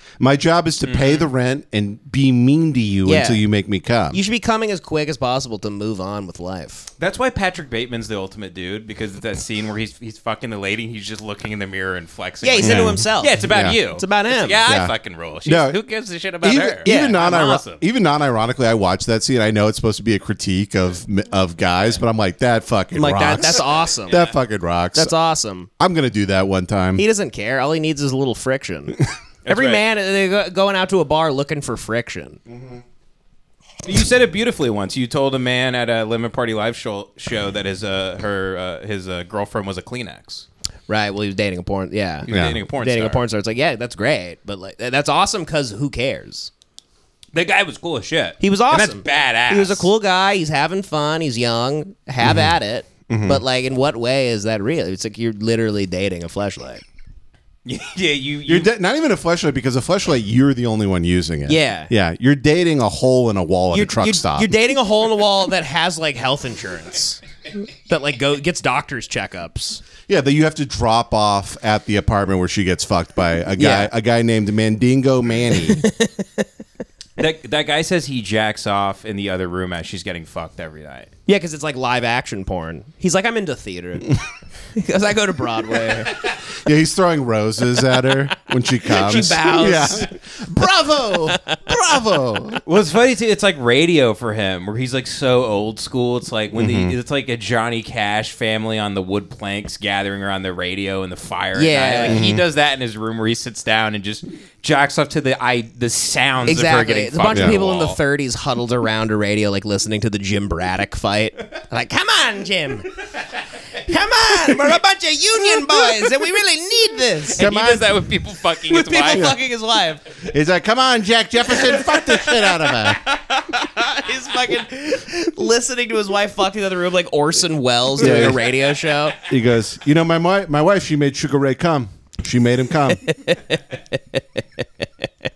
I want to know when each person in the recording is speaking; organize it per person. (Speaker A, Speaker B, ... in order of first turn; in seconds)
Speaker A: 0.2-4.2, 12.6-13.8, 14.7-15.8, 16.4-25.1, 25.8-27.0, 32.5-32.8, 42.3-42.6, 52.2-52.5, 53.1-53.4, 58.5-64.5, 70.1-75.8, 86.5-92.6, 96.5-97.0, 102.1-102.4, 107.3-107.6, 117.3-117.9, 119.1-119.4, 120.2-123.0, 128.0-128.5, 129.2-133.0
Speaker B: 0.8-1.3, 7.0-17.8, 29.5-29.8, 33.8-40.5, 42.2-43.2, 47.3-49.9, 57.6-58.7, 77.2-81.1, 92.6-108.0, 117.4-119.3
Speaker C: 3.0-3.4, 4.1-6.9, 12.4-14.6, 16.9-17.2, 22.9-24.3, 24.9-25.7, 27.0-32.4, 40.9-46.5, 48.4-56.8, 61.5-61.9, 63.7-67.2, 67.9-69.8, 73.6-73.9, 75.8-76.5, 81.3-84.2, 84.7-86.2, 88.9-90.1, 91.3-91.7, 101.5-102.2, 106.5-112.9, 113.8-117.8, 118.6-120.1, 122.7-129.2, 133.0-134.8